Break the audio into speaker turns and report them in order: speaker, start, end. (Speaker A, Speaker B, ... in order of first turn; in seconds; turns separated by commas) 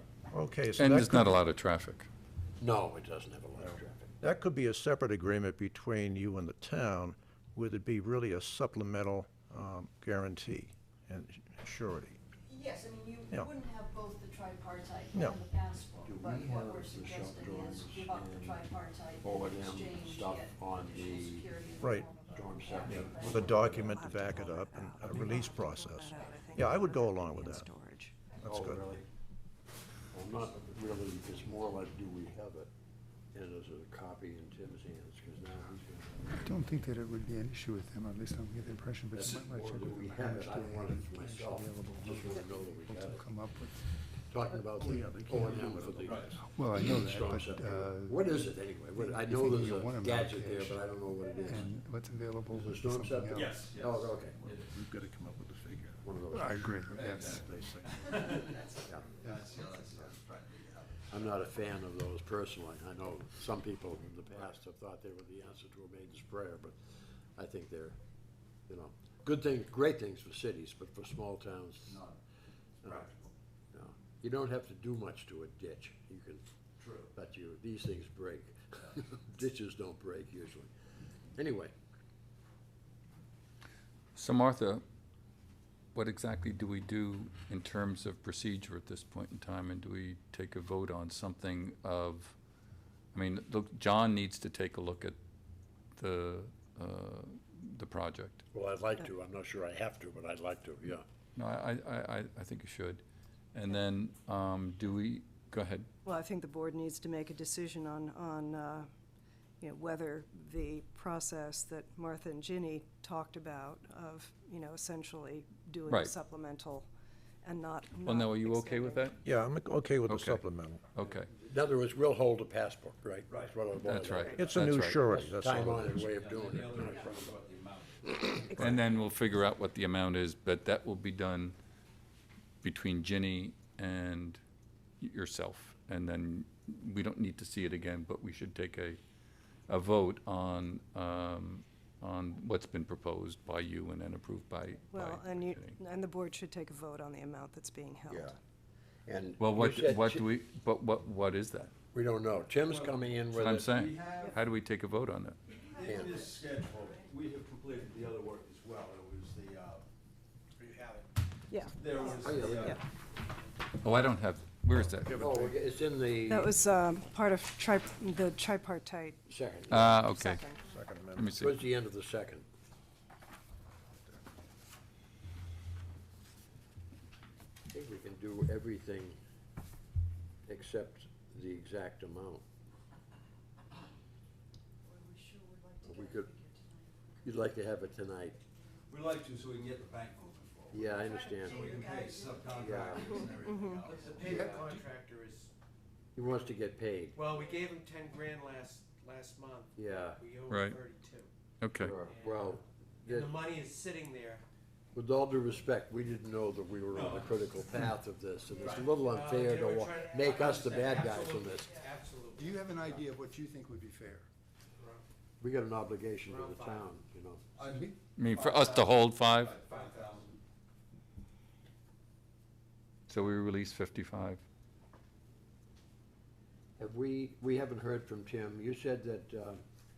Speaker A: 0.3-1.4, Speaker B: 0.8-2.1, Speaker C: 2.6-4.1, Speaker A: 4.2-12.2, Speaker D: 12.5-24.1, Speaker A: 15.1-15.4, Speaker C: 16.0-24.1, Speaker A: 21.8-22.1, Speaker A: 22.9-27.7, Speaker E: 23.9-28.2, Speaker C: 28.4-29.1, Speaker A: 28.4-28.9, Speaker C: 30.1-32.7, Speaker C: 33.3-36.7, Speaker F: 36.3-43.9, Speaker C: 39.1-43.2, Speaker C: 44.3-51.7, Speaker A: 44.8-46.4, Speaker F: 44.8-45.5, Speaker G: 46.0-46.4, Speaker F: 46.4-53.6, Speaker C: 52.5-54.4, Speaker G: 53.4-54.7, Speaker A: 54.4-56.1, Speaker C: 56.0-56.9, Speaker F: 56.3-57.5, Speaker G: 56.9-61.4, Speaker A: 57.2-58.3, Speaker F: 59.2-59.5, Speaker C: 61.1-66.8, Speaker C: 67.4-68.0, Speaker C: 68.7-72.0, Speaker G: 71.9-72.2, Speaker C: 72.8-73.1, Speaker G: 72.8-73.2, Speaker C: 73.7-76.4, Speaker G: 76.8-77.1, Speaker C: 77.1-80.7, Speaker C: 81.3-81.7, Speaker B: 84.2-84.8, Speaker B: 85.9-92.3, Speaker B: 93.1-95.2, Speaker B: 96.0-98.5, Speaker C: 98.5-101.0, Speaker B: 101.3-103.0, Speaker B: 103.5-105.9, Speaker E: 106.0-108.9, Speaker E: 109.6-116.9, Speaker B: 115.9-116.1, Speaker E: 117.4-119.2, Speaker B: 118.0-119.2, Speaker A: 119.2-120.8, Speaker B: 120.1-120.4, Speaker B: 121.0-121.3, Speaker C: 121.3-127.3, Speaker G: 123.3-123.6, Speaker B: 123.8-125.0, Speaker A: 124.4-126.1, Speaker G: 126.0-128.7, Speaker E: 128.5-128.8, Speaker B: 128.6-131.6, Speaker B: 132.6-134.4, Speaker B: 135.0-139.0, Speaker B: 139.7-145.8, Speaker E: 144.9-148.4, Speaker C: 148.1-148.4, Speaker C: 149.1-150.3, Speaker B: 149.4-151.7, Speaker C: 151.9-153.7, Speaker G: 152.6-154.4, Speaker B: 153.3-155.4, Speaker G: 155.6-159.8, Speaker C: 155.8-156.3, Speaker H: 160.6-161.1, Speaker E: 161.5-162.8, Speaker G: 161.7-162.8, Speaker C: 162.0-162.8, Speaker B: 163.8-165.3, Speaker A: 165.0-165.6, Speaker C: 165.1-166.5, Speaker E: 166.3-169.2, Speaker C: 169.3-170.0, Speaker B: 169.7-170.4, Speaker E: 170.1-170.6, Speaker A: 170.6-171.4, Speaker B: 171.1-171.6, Speaker C: 171.4-172.4, Speaker C: 177.7-179.2, Speaker C: 180.5-182.4, Speaker D: 184.8-187.0, Speaker C: 185.8-186.4, Speaker C: 187.2-188.4, Speaker G: 188.9-194.5, Speaker C: 190.7-191.8, Speaker D: 191.1-192.8, Speaker C: 192.5-193.2, Speaker E: 193.2-193.9, Speaker H: 193.9-195.5, Speaker C: 194.3-194.8, Speaker C: 196.2-197.2, Speaker H: 197.2-201.3, Speaker C: 199.8-200.2, Speaker B: 200.5-200.8, Speaker B: 201.6-201.9, Speaker C: 201.8-203.4, Speaker H: 201.9-204.4, Speaker C: 204.9-211.8, Speaker G: 206.9-207.4, Speaker G: 208.5-208.9, Speaker H: 209.0-213.0, Speaker F: 212.3-214.3, Speaker H: 214.8-215.0, Speaker C: 215.4-217.4, Speaker H: 216.3-216.9, Speaker G: 217.6-220.4, Speaker F: 217.7-218.0, Speaker B: 218.2-219.6, Speaker H: 219.7-220.1, Speaker B: 223.1-224.4, Speaker C: 226.8-229.6